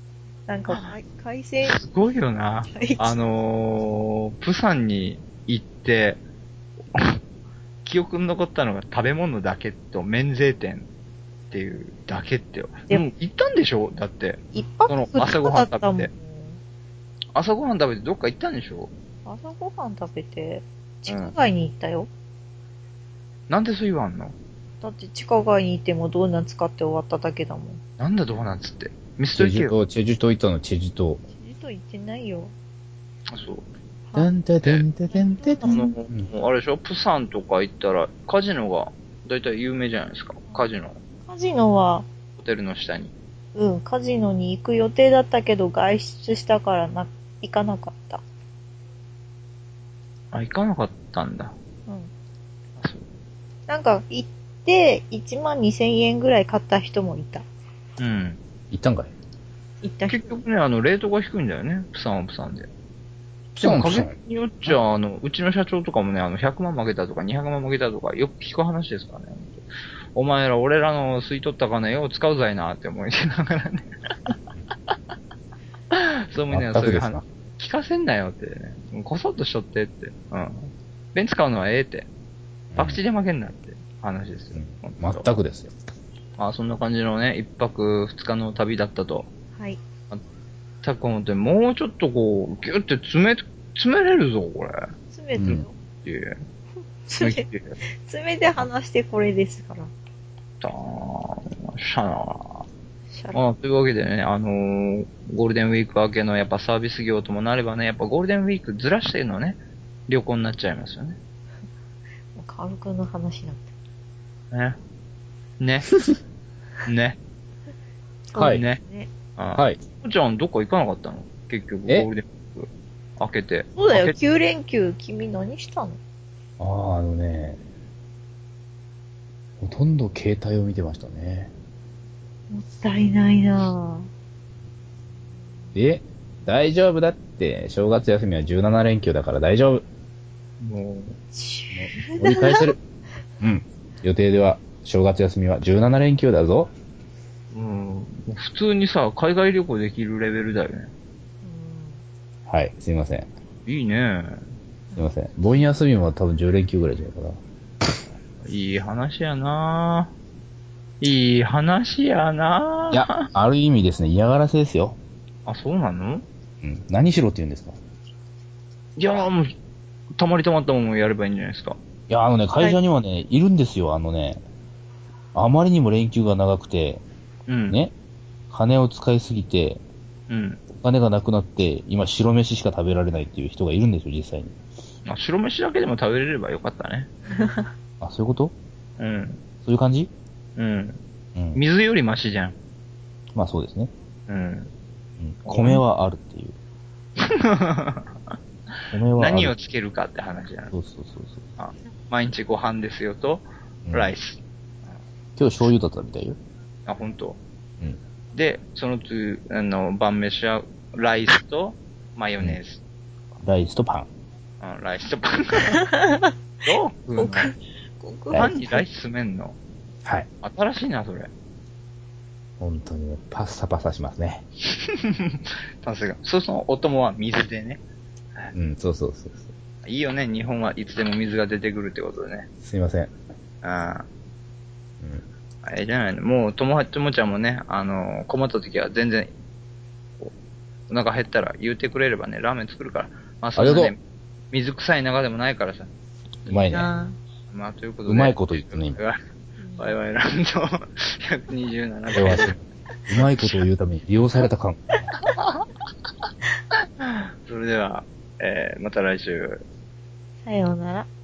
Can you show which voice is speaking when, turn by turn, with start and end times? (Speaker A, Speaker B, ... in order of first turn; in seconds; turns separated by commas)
Speaker A: 0.5-1.8, Speaker B: 1.6-6.2, Speaker A: 2.7-3.2, Speaker B: 7.8-10.9, Speaker B: 11.5-16.1, Speaker A: 14.5-16.6, Speaker B: 17.4-18.9, Speaker A: 19.2-22.1, Speaker B: 21.1-21.4, Speaker B: 23.5-24.4, Speaker A: 24.8-27.8, Speaker B: 28.0-29.8, Speaker C: 29.3-31.2, Speaker A: 31.4-32.5, Speaker B: 33.3-33.6, Speaker A: 34.1-34.3, Speaker C: 34.1-36.3, Speaker A: 35.1-36.0, Speaker B: 35.6-41.0, Speaker A: 41.2-42.1, Speaker B: 42.4-43.1, Speaker A: 43.5-48.2, Speaker B: 50.3-51.5, Speaker B: 52.8-53.0, Speaker A: 53.7-57.5, Speaker B: 58.0-58.4, Speaker C: 58.7-59.1, Speaker A: 59.8-60.4, Speaker B: 60.1-62.7, Speaker B: 63.5-73.9, Speaker C: 63.6-64.8, Speaker B: 75.9-82.1, Speaker C: 76.5-77.2, Speaker C: 82.7-83.0, Speaker B: 82.8-85.3, Speaker C: 84.5-85.7, Speaker B: 86.4-89.3, Speaker B: 90.8-94.8, Speaker A: 95.1-95.7, Speaker C: 95.4-95.6, Speaker B: 95.5-96.4, Speaker A: 97.0-99.9, Speaker B: 97.2-97.8, Speaker B: 100.6-102.7, Speaker A: 103.1-103.4, Speaker B: 103.3-111.2, Speaker A: 112.3-113.7, Speaker B: 114.5-114.8, Speaker B: 115.6-115.9, Speaker B: 116.8-117.2, Speaker A: 118.3-119.1, Speaker C: 118.3-118.7, Speaker B: 118.4-118.8, Speaker B: 119.4-124.2, Speaker A: 123.8-126.0, Speaker C: 126.6-127.6, Speaker C: 129.6-131.5, Speaker A: 132.5-134.1, Speaker C: 135.7-139.8, Speaker B: 140.6-141.2, Speaker A: 141.3-142.8, Speaker C: 141.7-142.8, Speaker C: 143.4-146.7, Speaker B: 147.5-150.9, Speaker A: 151.4-152.0, Speaker C: 152.5-153.3, Speaker B: 153.7-154.4, Speaker A: 154.9-155.2, Speaker C: 155.0-157.4, Speaker B: 158.4-160.1, Speaker B: 161.0-163.1, Speaker C: 162.9-165.0, Speaker B: 165.5-166.3, Speaker C: 166.6-167.8, Speaker B: 169.0-169.5, Speaker B: 170.2-171.8, Speaker C: 172.1-174.4, Speaker C: 175.3-177.0, Speaker B: 177.5-177.8, Speaker C: 178.5-179.8, Speaker B: 180.3-180.6, Speaker C: 180.7-184.6, Speaker B: 185.1-187.1, Speaker A: 187.4-187.7, Speaker C: 188.0-188.5, Speaker B: 189.0-189.4, Speaker C: 189.6-190.1, Speaker B: 190.6-191.0, Speaker C: 191.3-191.6, Speaker B: 191.6-192.6, Speaker C: 193.3-193.9, Speaker B: 194.3-194.7, Speaker C: 195.2-196.6, Speaker B: 195.5-195.8, Speaker B: 197.2-198.1, Speaker C: 198.9-199.5, Speaker B: 199.1-200.7, Speaker C: 200.7-201.4, Speaker B: 201.6-205.0, Speaker C: 203.9-204.1, Speaker C: 205.4-206.4, Speaker B: 206.9-207.4, Speaker B: 208.3-212.8, Speaker C: 213.4-214.1, Speaker B: 214.6-215.8, Speaker A: 215.9-216.3, Speaker B: 216.7-217.5, Speaker A: 217.2-218.8, Speaker C: 218.3-218.7, Speaker B: 218.3-219.6, Speaker B: 220.4-221.3, Speaker C: 222.6-224.4, Speaker B: 224.9-227.8, Speaker C: 228.5-229.5, Speaker B: 229.8-232.5, Speaker C: 232.6-233.1, Speaker B: 233.6-234.1, Speaker B: 235.6-239.3, Speaker B: 240.9-244.0, Speaker C: 243.6-243.9, Speaker B: 244.5-245.9, Speaker C: 246.5-246.9, Speaker A: 246.5-247.2, Speaker B: 247.5-249.2, Speaker C: 248.1-249.0, Speaker A: 249.6-250.0, Speaker B: 249.8-252.5, Speaker C: 252.1-255.0, Speaker B: 253.2-253.5, Speaker B: 257.0-259.6, Speaker A: 260.4-261.1